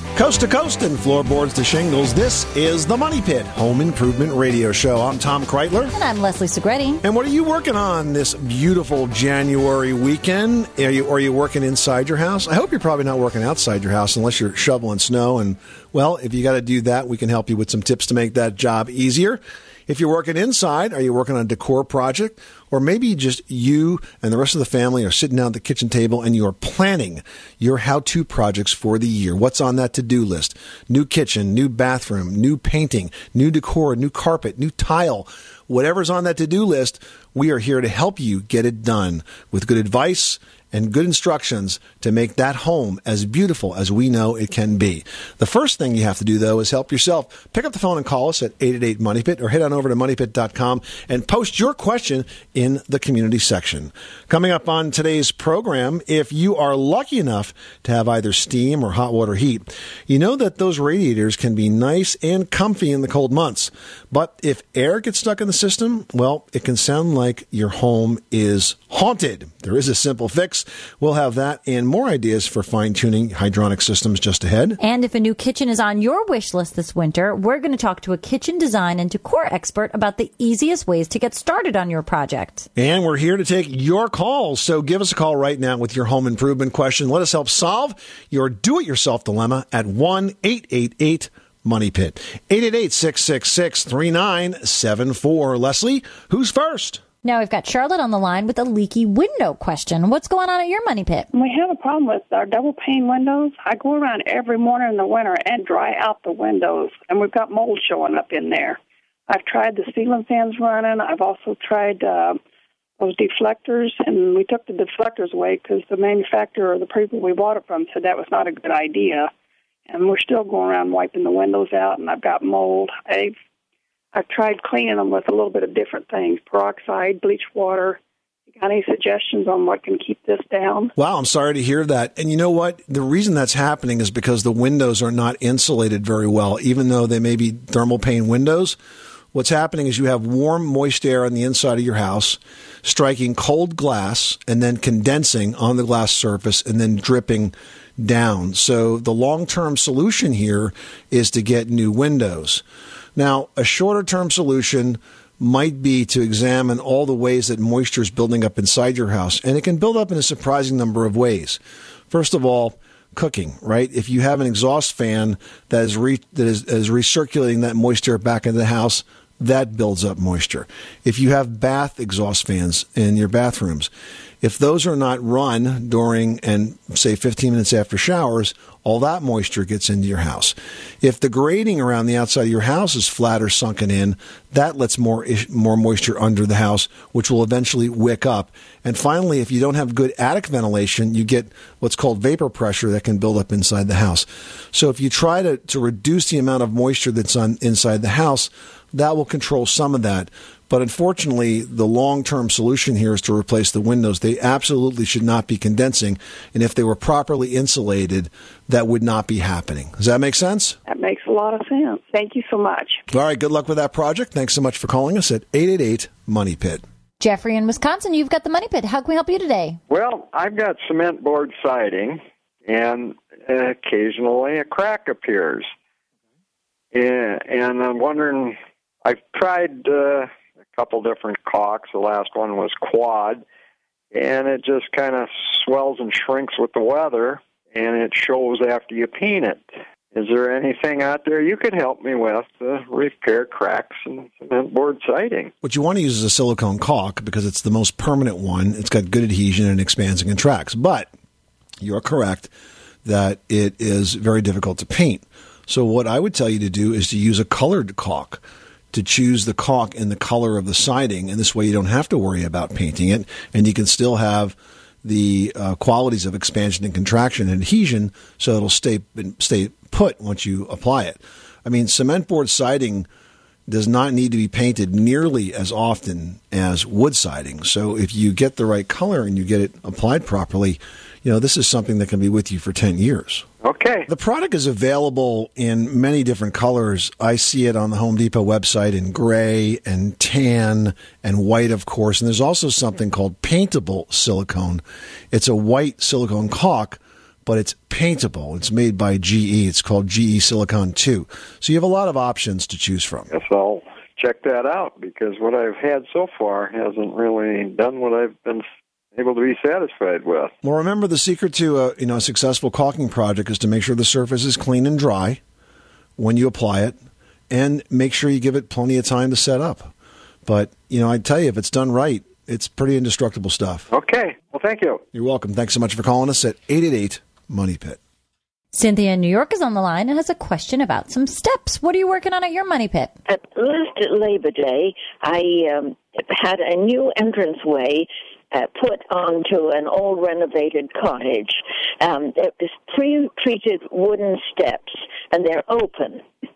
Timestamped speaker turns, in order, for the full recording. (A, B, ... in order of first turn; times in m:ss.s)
0:00.2-0:05.9 A
0:05.9-0:07.0 B
0:07.0-1:14.8 A
1:14.8-1:22.7 B
1:22.8-1:37.0 A
1:37.2-1:41.3 B
1:41.3-1:52.4 C
1:53.0-1:59.3 C
1:59.9-2:03.4 C
2:04.1-2:08.0 C
2:08.5-2:10.9 C
2:11.0-2:18.8 A
2:19.3-2:32.6 A
2:33.2-2:53.9 A
2:54.4-3:30.8 A
3:30.9-3:33.0 C
3:33.1-3:36.8 A
3:37.2-3:39.8 B
3:39.9-3:45.7 D
3:46.9-3:53.4 D
3:54.1-4:05.5 D
4:05.6-4:11.1 A
4:11.8-4:12.5 A
4:13.0-4:33.1 A
4:33.7-4:43.5 A
4:43.6-4:44.1 D
4:44.1-5:03.3 A
5:03.3-5:10.5 D
5:10.6-5:15.4 A
5:16.2-5:17.0 A
5:17.5-5:19.9 A
5:20.5-5:23.9 A
5:23.9-5:25.0 D
5:25.1-5:28.0 A
5:28.7-5:33.1 B
5:33.3-5:46.2 E